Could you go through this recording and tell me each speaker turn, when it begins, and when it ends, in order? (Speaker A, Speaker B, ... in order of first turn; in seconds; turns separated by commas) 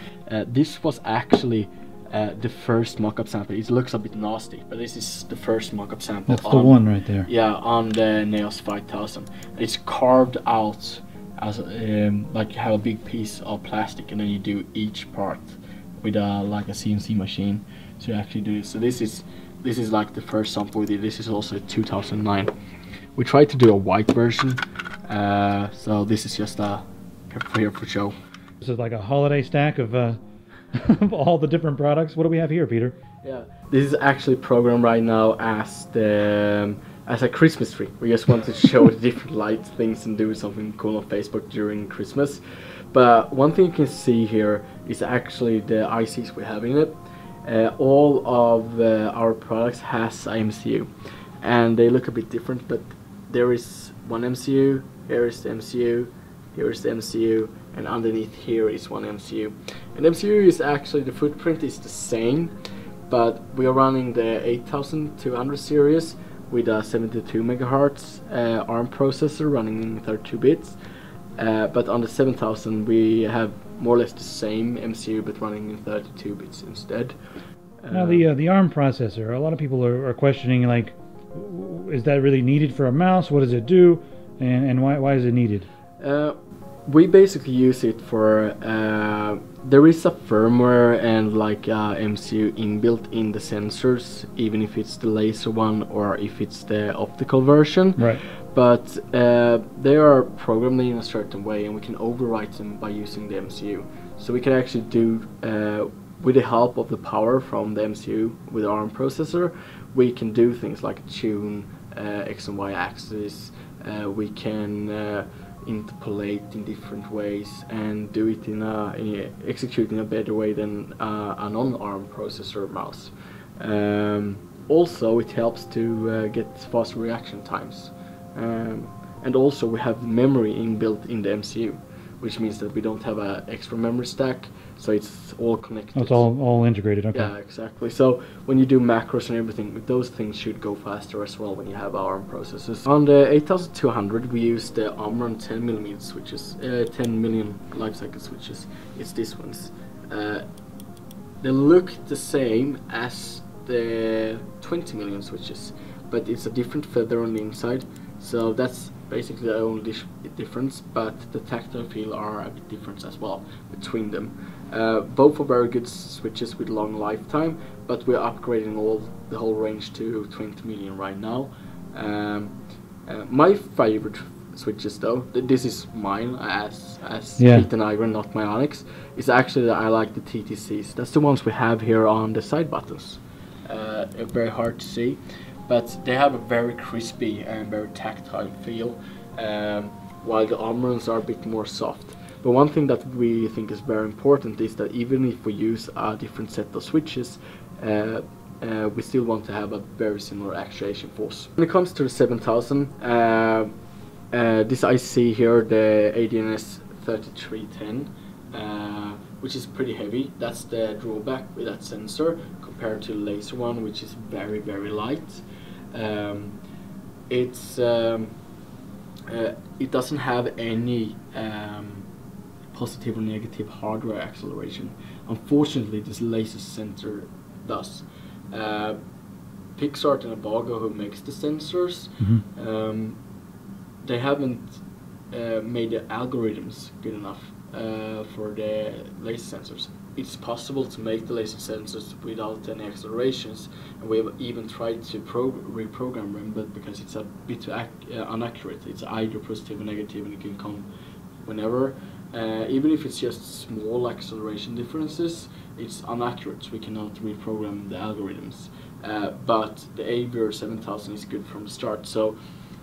Speaker A: 0.3-22.5, Speaker B: 6.3-7.3, Speaker A: 23.1-28.1, Speaker B: 28.6-30.2, Speaker B: 30.7-32.9, Speaker A: 33.2-42.4, Speaker A: 42.9-50.9, Speaker A: 51.4-62.5, Speaker A: 63.1-70.7, Speaker A: 71.4-77.1, Speaker A: 77.8-78.3, Speaker B: 77.9-85.7, Speaker A: 86.0-86.3, Speaker A: 86.9-136.3, Speaker B: 98.0-98.2, Speaker B: 135.9-137.3, Speaker A: 137.1-150.4, Speaker A: 151.4-172.5, Speaker A: 173.1-203.7, Speaker B: 177.4-177.7, Speaker A: 204.3-216.6, Speaker A: 217.3-218.3, Speaker A: 219.3-222.1, Speaker A: 222.7-229.0, Speaker A: 229.8-233.2, Speaker A: 234.0-234.8, Speaker A: 235.3-250.9, Speaker A: 251.4-262.4